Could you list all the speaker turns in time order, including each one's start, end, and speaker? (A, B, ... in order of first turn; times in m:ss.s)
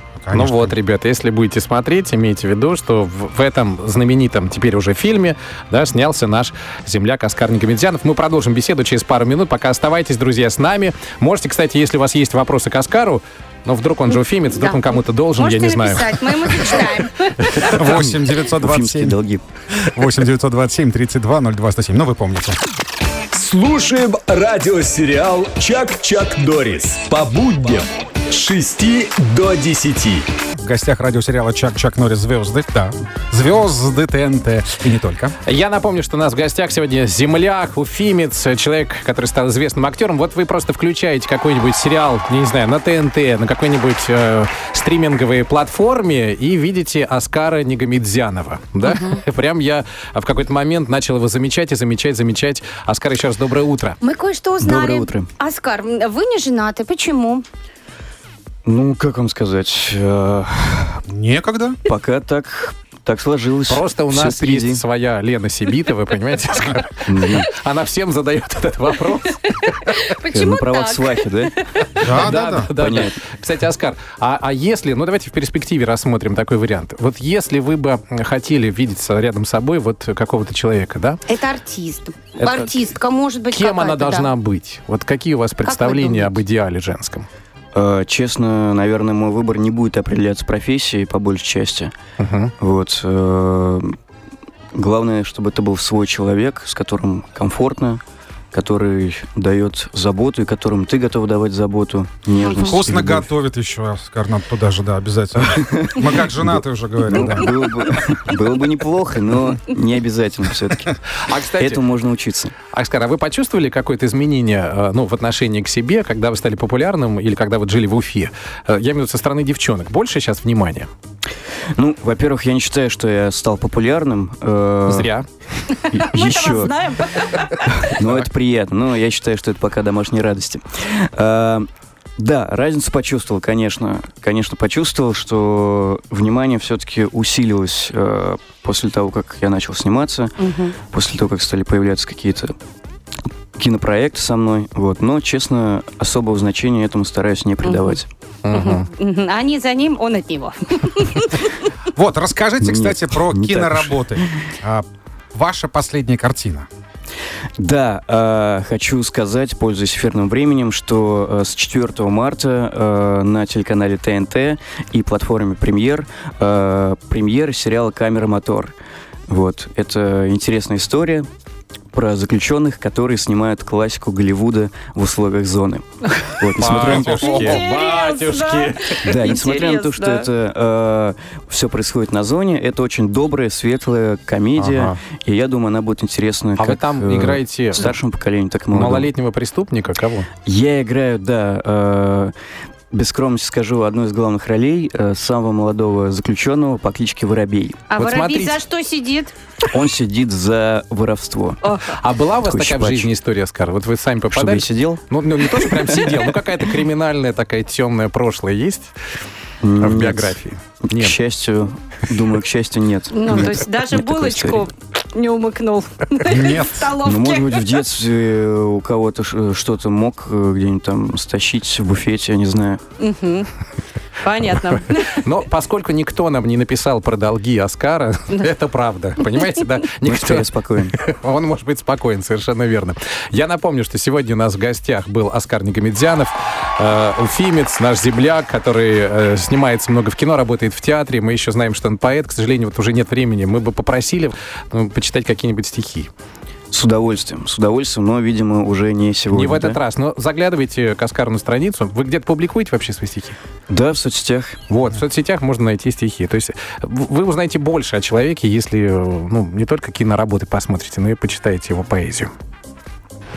0:00.2-0:00.7 A
0:00.3-0:17.0 B
0:14.5-0:17.8 C
0:17.5-0:19.4 D
0:17.6-0:19.1 A
0:19.9-0:22.6 A
0:23.3-0:30.2 E
0:30.6-0:35.3 A
0:35.4-0:54.0 B
0:48.8-0:49.2 C
0:54.0-0:57.4 C
0:54.6-0:55.3 D
0:58.6-1:01.0 D
1:01.1-1:01.8 A
1:01.8-1:04.8 D
1:03.7-1:10.0 B
1:07.0-1:07.5 D
1:10.0-1:11.2 C
1:10.3-1:11.5 D
1:11.9-1:21.2 B
1:12.0-1:12.7 A
1:12.8-1:13.2 D
1:21.3-1:24.3 C
1:22.4-1:22.9 B
1:23.5-1:27.3 B
1:25.6-1:26.3 C
1:27.7-1:31.9 D
1:32.2-1:32.5 B
1:32.6-1:33.9 D
1:34.7-1:38.0 D
1:38.5-1:43.3 D
1:42.4-1:42.8 C
1:42.6-1:47.8 A
1:45.7-1:51.0 D
1:51.2-1:51.8 B
1:51.6-1:52.5 D
1:52.7-2:00.9 B
2:01.8-2:05.1 D
2:04.9-2:05.3 B
2:05.7-2:07.9 C
2:05.9-2:22.5 D
2:20.4-2:20.8 C
2:23.6-2:28.1 D
2:27.6-2:31.7 C
2:28.4-2:28.9 B
2:31.9-2:36.7 A
2:32.6-2:34.3 D
2:37.6-2:48.7 D
2:49.3-2:51.3 D
2:51.9-2:57.6 D
2:56.6-2:59.3 B
2:56.6-2:57.6 A
2:57.1-3:00.3 C
2:59.0-3:09.1 D
3:04.6-3:04.9 B
3:06.6-3:08.0 B
3:08.7-3:10.3 B
3:10.4-3:12.3 D
3:12.9-3:17.9 D
3:17.9-3:19.3 C
3:17.9-3:18.6 B
3:19.6-3:21.6 D
3:21.6-3:22.0 C
3:21.9-3:28.9 B
3:22.4-3:23.1 D
3:24.3-3:26.3 D
3:29.6-3:34.6 D
3:29.8-3:31.2 B
3:33.1-3:37.7 C
3:36.3-3:36.8 A
3:37.0-3:42.8 D
3:43.0-3:43.5 C
3:44.2-3:45.2 C
3:45.2-4:06.1 B
3:50.0-3:50.9 D
4:06.7-4:09.8 D
4:09.3-4:13.4 B
4:13.7-4:14.6 D
4:14.7-4:22.3 B